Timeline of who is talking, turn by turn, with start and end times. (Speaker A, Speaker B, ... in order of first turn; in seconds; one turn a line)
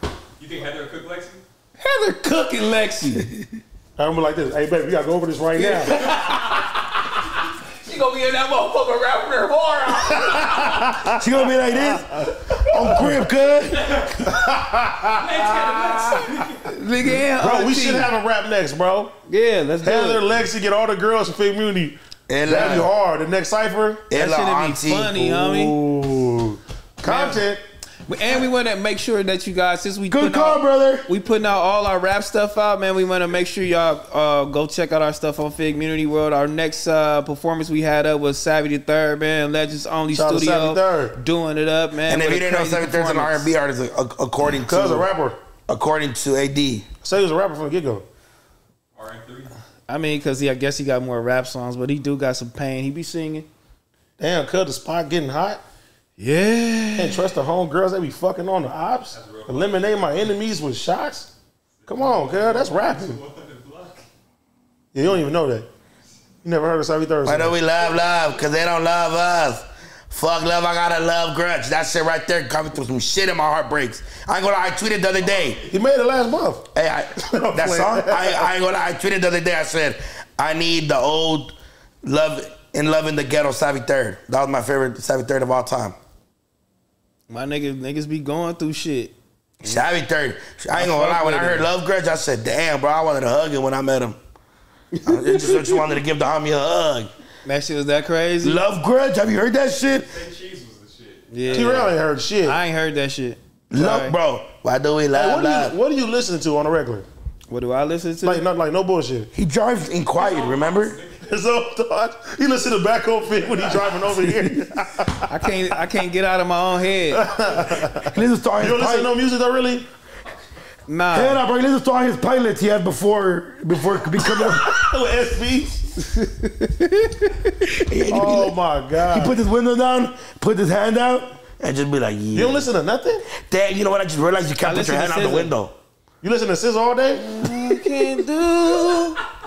Speaker A: 0.4-1.4
Speaker B: 1.8-3.3
Speaker C: 4.0-6.0
Speaker B: 5.5-7.2
Speaker B: 7.8-10.9
Speaker C: 10.2-11.2
Speaker D: 11.1-14.3
Speaker C: 11.8-12.3
Speaker B: 12.5-13.0
Speaker C: 12.9-13.2
Speaker A: 13.8-14.1
Speaker C: 14.2-16.2
Speaker A: 15.1-16.7
Speaker B: 15.7-18.1
Speaker C: 17.2-19.1
Speaker B: 19.3-20.2
Speaker C: 19.8-24.1
Speaker D: 22.3-22.9
Speaker D: 24.1-25.4
Speaker B: 24.1-25.8
Speaker C: 25.4-27.6
Speaker B: 27.0-27.4
Speaker B: 28.1-43.5
Speaker D: 30.1-31.0
Speaker C: 40.1-41.1
Speaker D: 42.1-45.1
Speaker C: 44.5-45.4
Speaker D: 45.7-46.9
Speaker C: 47.0-48.0
Speaker A: 48.9-49.5
Speaker B: 49.9-53.5
Speaker C: 54.2-55.6
Speaker B: 56.2-57.2
Speaker C: 56.9-61.3
Speaker A: 59.1-60.3
Speaker A: 61.8-64.0
Speaker C: 61.9-63.2
Speaker C: 64.9-65.7
Speaker C: 66.4-67.5
Speaker D: 67.2-75.6
Speaker A: 75.2-75.7
Speaker C: 75.7-76.7
Speaker D: 76.7-86.0
Speaker C: 77.2-78.5
Speaker B: 87.3-89.8
Speaker D: 89.6-94.2
Speaker B: 90.7-91.7
Speaker B: 94.9-95.8
Speaker D: 95.0-97.1
Speaker B: 97.4-98.6
Speaker D: 98.4-100.1
Speaker A: 100.0-101.8
Speaker B: 101.3-104.1
Speaker C: 101.5-102.6
Speaker D: 103.7-105.8
Speaker C: 105.1-107.1
Speaker B: 107.5-108.4
Speaker C: 108.2-109.3
Speaker D: 109.3-111.0
Speaker A: 110.2-111.2
Speaker C: 111.2-115.3
Speaker D: 114.2-114.7
Speaker B: 115.3-117.3
Speaker C: 117.1-119.9
Speaker D: 118.1-119.1
Speaker B: 120.9-121.4
Speaker D: 121.1-124.8
Speaker C: 124.3-125.8
Speaker B: 126.0-127.8
Speaker D: 127.8-132.7
Speaker C: 128.1-129.4
Speaker C: 132.3-133.2
Speaker D: 133.3-135.7
Speaker B: 134.6-135.5
Speaker C: 136.2-137.2
Speaker B: 137.2-139.2
Speaker D: 137.5-138.1